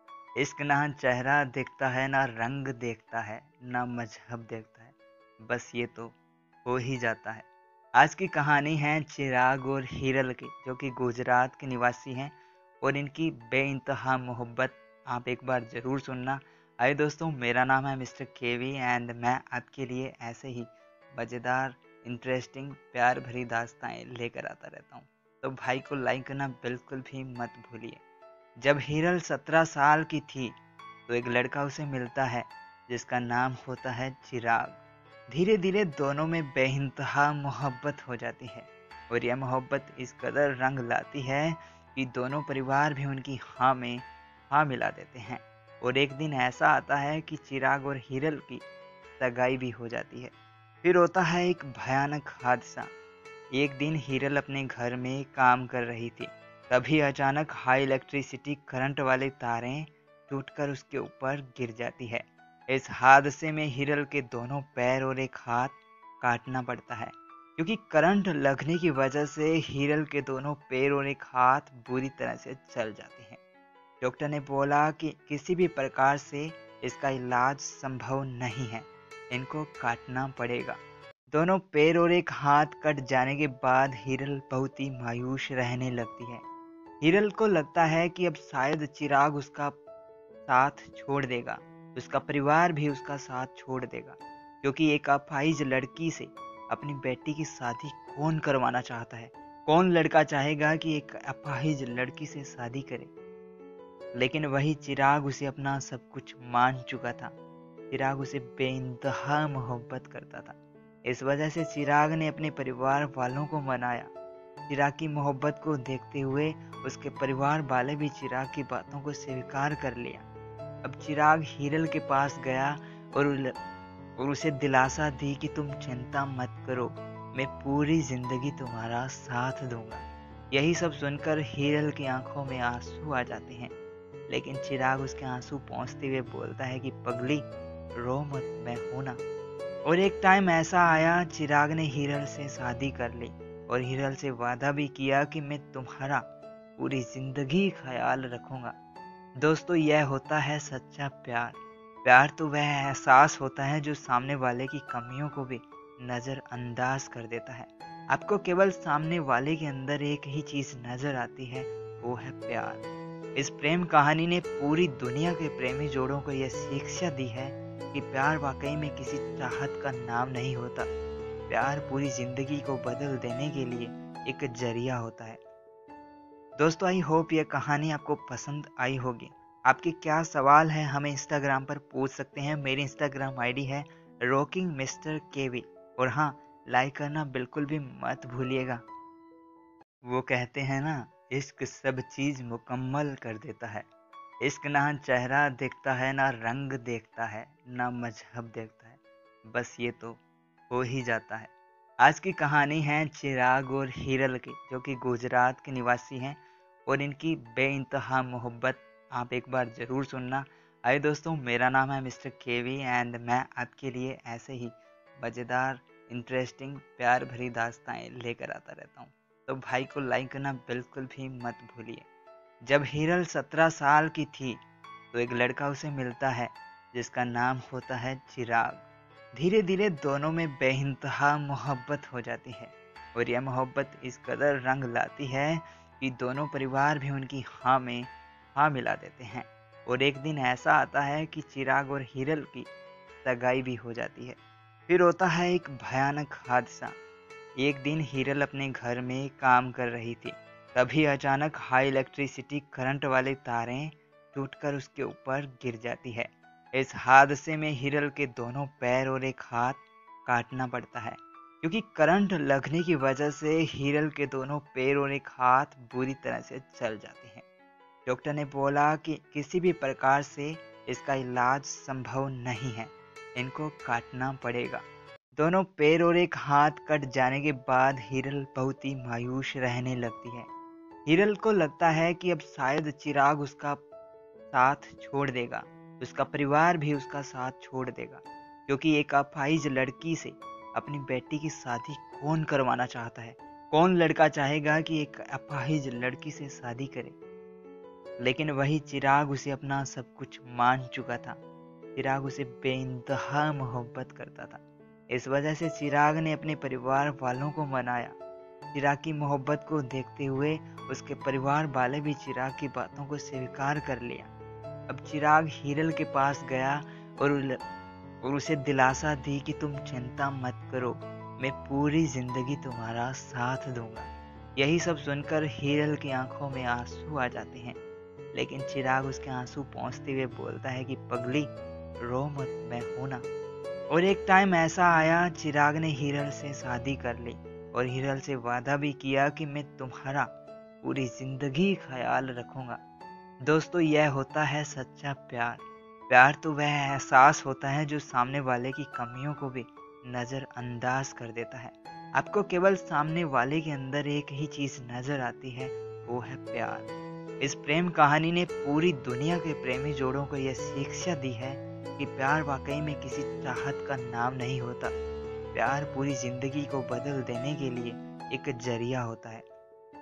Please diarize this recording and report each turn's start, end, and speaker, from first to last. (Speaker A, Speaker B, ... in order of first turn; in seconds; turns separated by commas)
Speaker A: 0.4-6.2, Speaker A: 6.7-28.0, Speaker A: 28.6-30.6, Speaker A: 31.1-34.8, Speaker A: 35.3-48.6, Speaker A: 49.2-52.9, Speaker A: 53.5-73.4, Speaker A: 74.0-80.8, Speaker A: 81.3-86.4, Speaker A: 87.0-89.8, Speaker A: 90.5-103.1, Speaker A: 104.2-107.3, Speaker A: 107.9-114.1, Speaker A: 114.7-120.3, Speaker A: 120.8-123.5, Speaker A: 124.2-133.7, Speaker A: 134.3-137.4, Speaker A: 138.0-139.2, Speaker A: 139.8-146.2, Speaker A: 146.8-148.8, Speaker A: 149.4-162.8, Speaker A: 163.4-170.9, Speaker A: 171.5-175.4, Speaker A: 176.6-188.8, Speaker A: 190.1-193.9, Speaker A: 194.4-201.5, Speaker A: 202.0-222.1, Speaker A: 222.6-224.6, Speaker A: 225.1-242.7, Speaker A: 243.2-246.9, Speaker A: 247.6-267.4, Speaker A: 268.1-274.9, Speaker A: 275.4-280.5, Speaker A: 281.1-283.8, Speaker A: 284.5-297.2, Speaker A: 298.2-301.4, Speaker A: 302.0-308.2, Speaker A: 308.7-314.3, Speaker A: 314.9-317.6, Speaker A: 318.2-327.8, Speaker A: 328.3-333.3, Speaker A: 333.9-340.3, Speaker A: 340.8-342.8, Speaker A: 343.4-356.9, Speaker A: 357.4-364.9, Speaker A: 365.5-369.4